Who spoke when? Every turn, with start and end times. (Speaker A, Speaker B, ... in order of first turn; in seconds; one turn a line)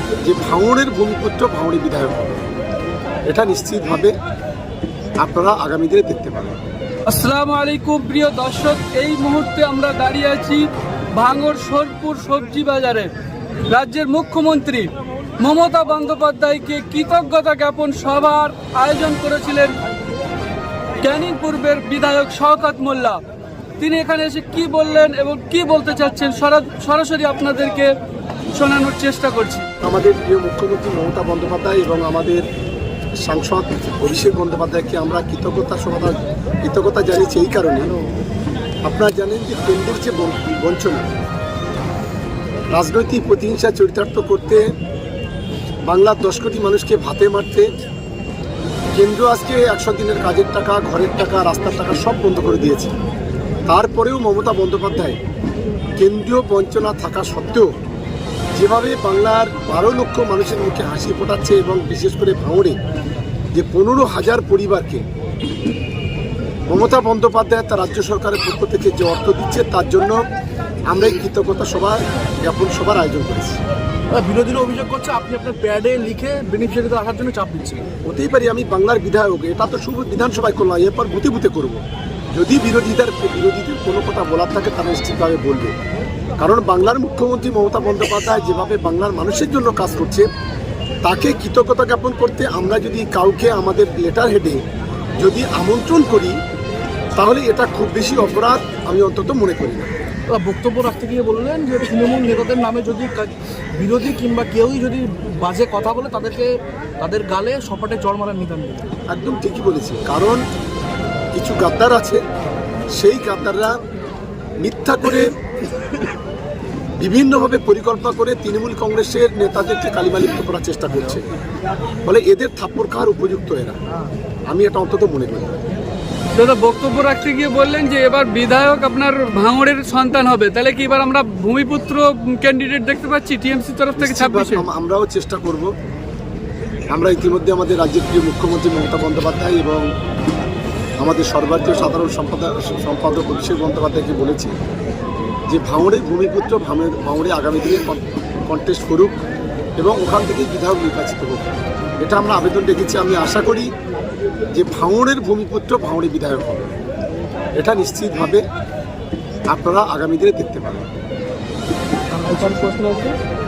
Speaker A: 0.2-2.5
Speaker A: 3.3-4.1
Speaker A: 5.2-6.6
Speaker B: 7.1-13.1
Speaker B: 13.7-19.7
Speaker B: 21.0-23.2
Speaker B: 23.8-27.9
Speaker B: 28.5-29.7
Speaker A: 29.8-32.5
Speaker A: 33.2-37.9
Speaker A: 38.8-41.1
Speaker A: 42.7-44.6
Speaker A: 45.9-47.7
Speaker A: 49.0-52.9
Speaker A: 53.7-55.2
Speaker A: 56.0-57.7
Speaker A: 58.5-62.8
Speaker A: 63.5-65.0
Speaker A: 66.7-70.2
Speaker A: 70.9-73.6
Speaker C: 74.1-77.9
Speaker A: 78.0-81.8
Speaker A: 82.3-85.7
Speaker A: 86.4-90.2
Speaker A: 91.0-94.6
Speaker A: 95.2-96.3
Speaker A: 97.2-99.9
Speaker C: 100.3-108.9
Speaker A: 109.1-110.4
Speaker A: 111.3-112.2
Speaker A: 113.0-113.7
Speaker A: 114.6-115.3
Speaker A: 117.0-121.3
Speaker A: 122.0-123.8
Speaker A: 124.5-125.6
Speaker B: 126.3-134.7
Speaker A: 134.0-135.7
Speaker A: 136.9-139.8
Speaker A: 141.0-144.5
Speaker A: 145.5-149.2
Speaker A: 149.8-151.5
Speaker A: 152.0-153.7
Speaker A: 154.5-156.7
Speaker A: 157.6-158.4
Speaker A: 159.5-160.9
Speaker C: 162.1-163.1